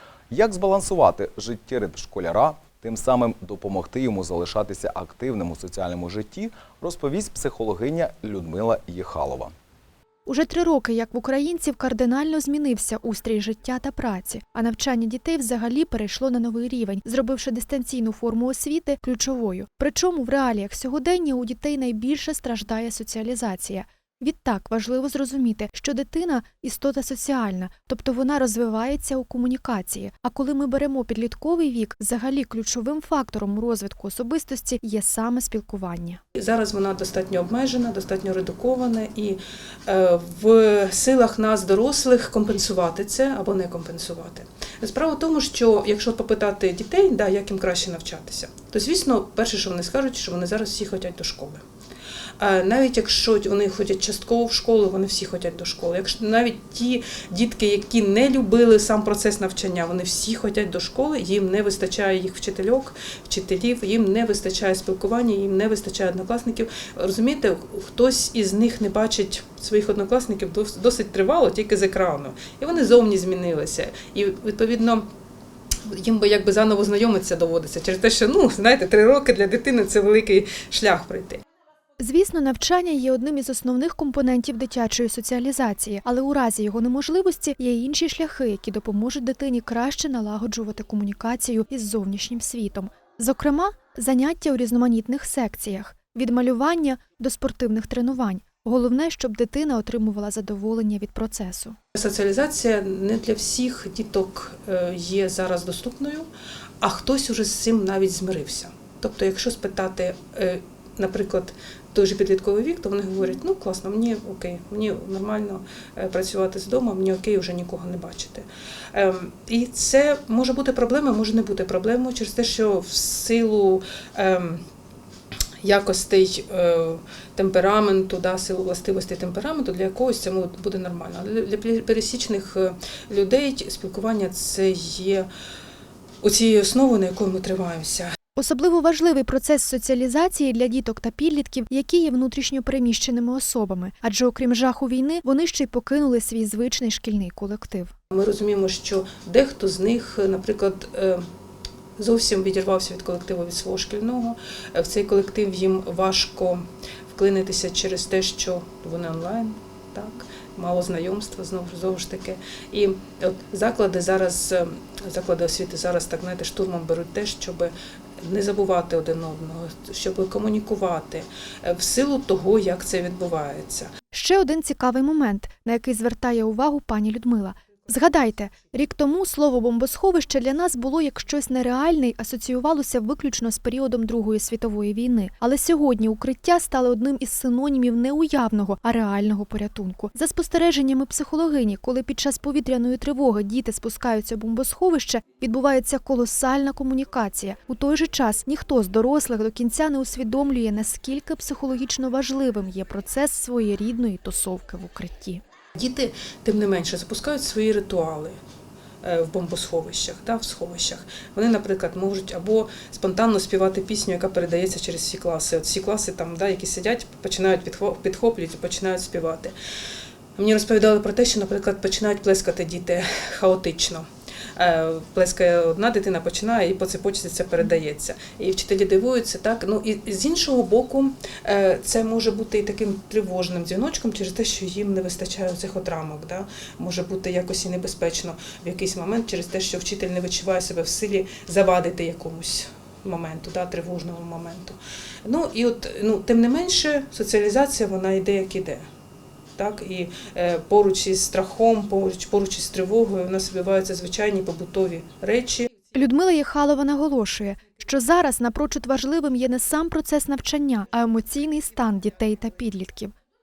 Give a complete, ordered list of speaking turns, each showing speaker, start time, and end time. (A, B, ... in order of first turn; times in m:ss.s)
0:00.3-0:09.5 A
0:10.3-0:36.2 B
0:36.4-0:51.6 C
0:52.4-1:15.1 C
1:15.8-1:21.4 C
1:22.0-1:41.8 B
1:41.9-1:46.3 C
1:46.8-2:04.6 C
2:05.6-2:15.3 C
2:16.2-2:18.1 C
2:18.4-2:27.9 B
2:28.1-2:31.2 C
2:32.0-2:53.9 C
2:54.1-3:25.4 B
3:25.8-3:28.4 C
3:29.0-3:39.5 C
3:40.4-4:08.8 C
4:09.6-4:15.7 C
4:15.9-4:23.1 B